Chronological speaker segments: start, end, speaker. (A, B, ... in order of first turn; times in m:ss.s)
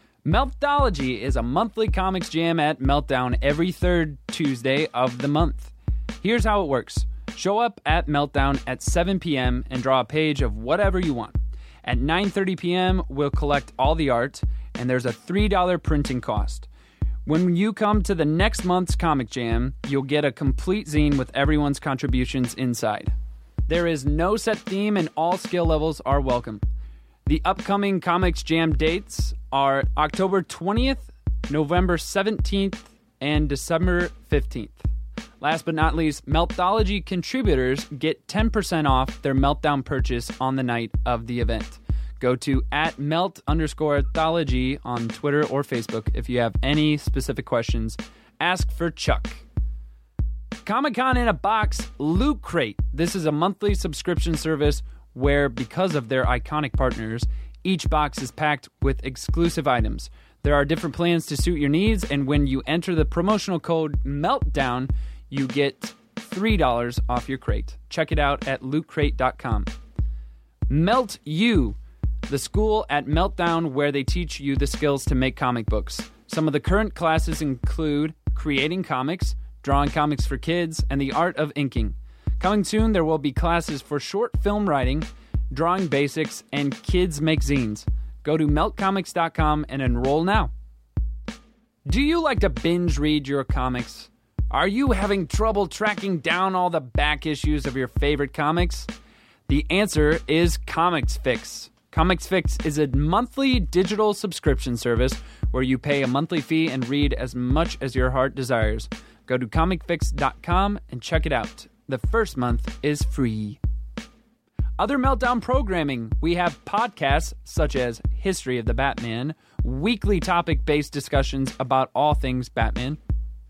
0:00.2-0:16.7 A
0:17.2-0:23.1 A
0:23.7-0:26.6 A
0:27.2-0:34.8 A
0:35.4-0:49.4 A
0:50.6-1:09.7 A
1:10.7-1:11.8 A
1:12.3-1:30.5 A
1:31.9-1:38.9 A
1:39.5-1:53.6 A
1:54.8-2:03.0 A